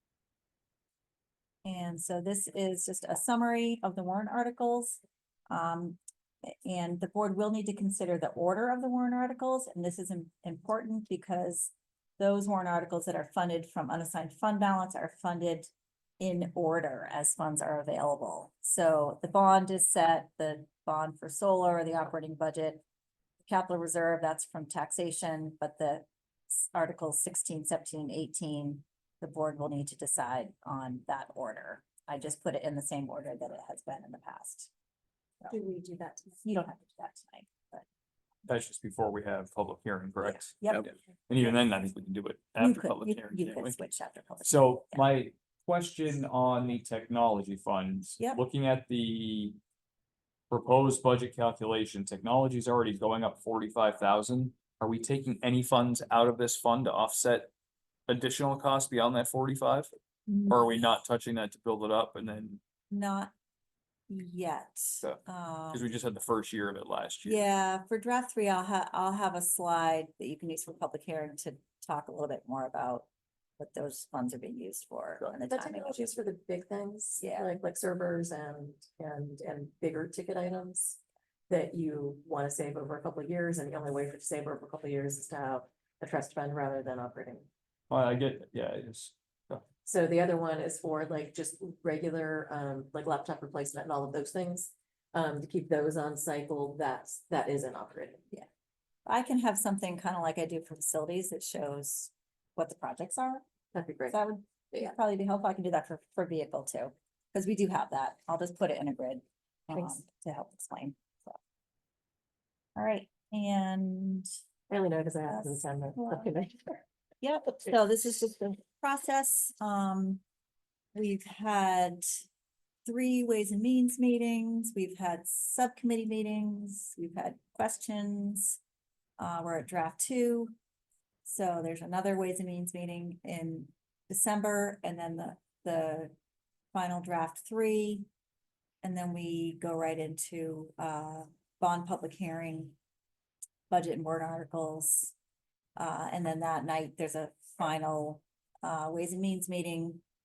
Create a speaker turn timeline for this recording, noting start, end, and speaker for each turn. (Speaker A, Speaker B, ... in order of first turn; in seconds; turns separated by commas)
Speaker A: 1.6-22.8, Speaker A: 23.4-34.7, Speaker A: 36.3-37.8, Speaker B: 38.5-43.8, Speaker A: 40.2-40.9, Speaker A: 42.6-45.1, Speaker B: 44.4-49.6, Speaker B: 50.5-57.5, Speaker B: 58.1-59.9, Speaker A: 60.3-60.9, Speaker B: 60.5-62.6, Speaker A: 62.9-63.3, Speaker A: 64.1-65.9, Speaker B: 65.7-67.4, Speaker A: 67.2-73.1, Speaker A: 73.6-76.1, Speaker C: 75.4-87.5, Speaker A: 77.2-77.5, Speaker B: 87.9-89.6, Speaker C: 89.8-98.2, Speaker A: 99.0-103.4, Speaker C: 103.7-104.2, Speaker A: 104.1-111.4, Speaker A: 112.8-114.3, Speaker C: 114.7-116.8, Speaker A: 115.3-116.3, Speaker A: 117.2-120.2, Speaker A: 120.9-122.2, Speaker A: 122.8-128.6, Speaker A: 129.2-130.5, Speaker A: 131.2-136.1, Speaker A: 136.7-138.1, Speaker A: 138.8-142.8, Speaker A: 143.7-145.1, Speaker A: 145.8-150.0